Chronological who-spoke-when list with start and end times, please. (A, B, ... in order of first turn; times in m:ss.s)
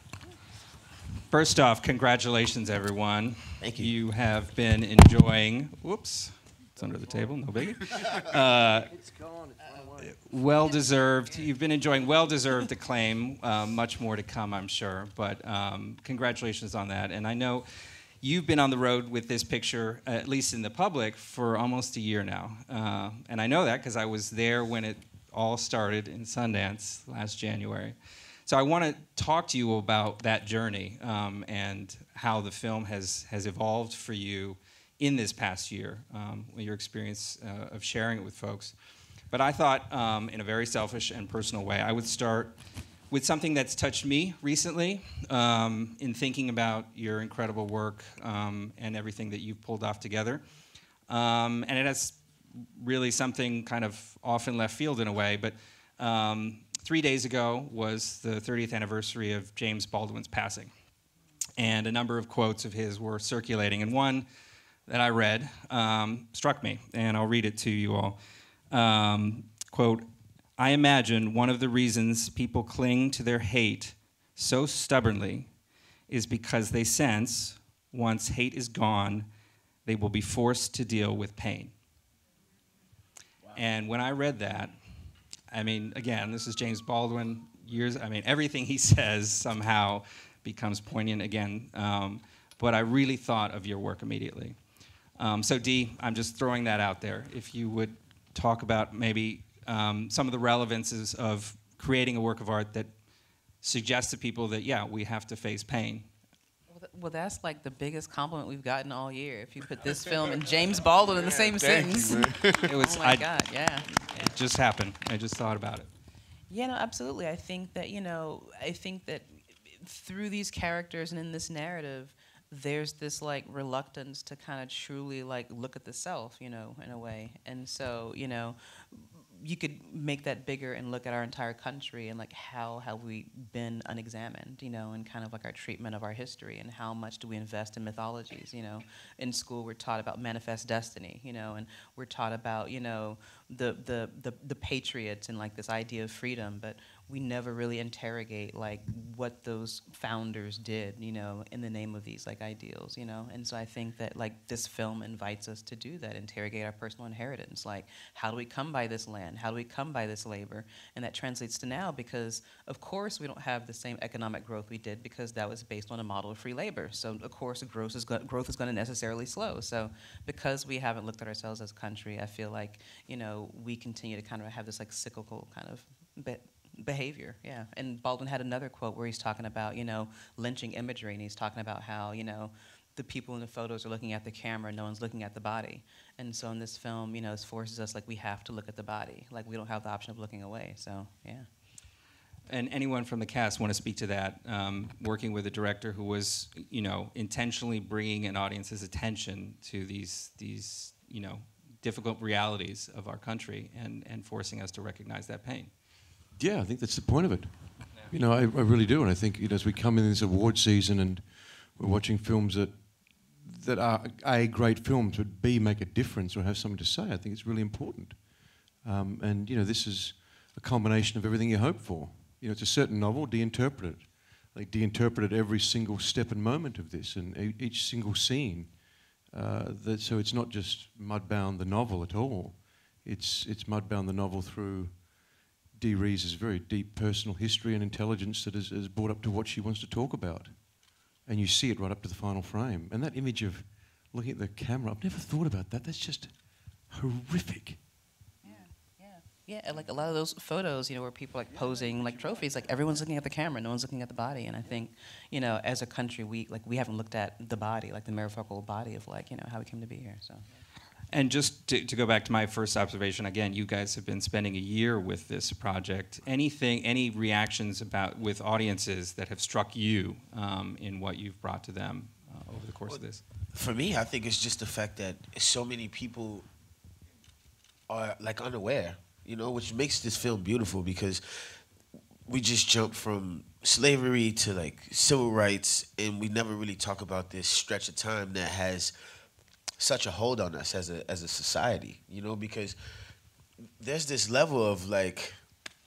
0:01.3-0:08.9 A
0:03.6-0:03.9 B
0:10.0-0:17.6 A
0:18.2-0:38.8 A
0:39.3-0:42.5 A
0:43.1-0:50.4 A
0:51.1-0:52.2 A
0:52.8-1:00.7 A
1:01.6-1:04.2 A
1:04.9-1:08.2 A
1:08.7-1:10.0 A
1:10.6-1:15.5 A
1:16.1-1:19.3 A
1:19.9-1:21.7 A
1:23.5-1:24.8 A
1:25.5-1:34.6 A
1:35.2-1:42.9 A
1:43.6-1:46.1 A
1:46.7-1:53.9 C
1:51.1-1:52.6 B
1:52.6-1:53.3 A
1:54.0-1:55.9 A
1:56.5-3:11.5 C
3:12.5-3:25.7 A
3:26.4-4:07.9 D
4:08.4-4:20.5 C
4:21.1-4:33.2 A
4:33.5-4:36.5 B
4:37.9-4:41.6 B
4:42.3-4:48.9 B
4:49.8-4:52.8 B
4:53.8-4:55.4 B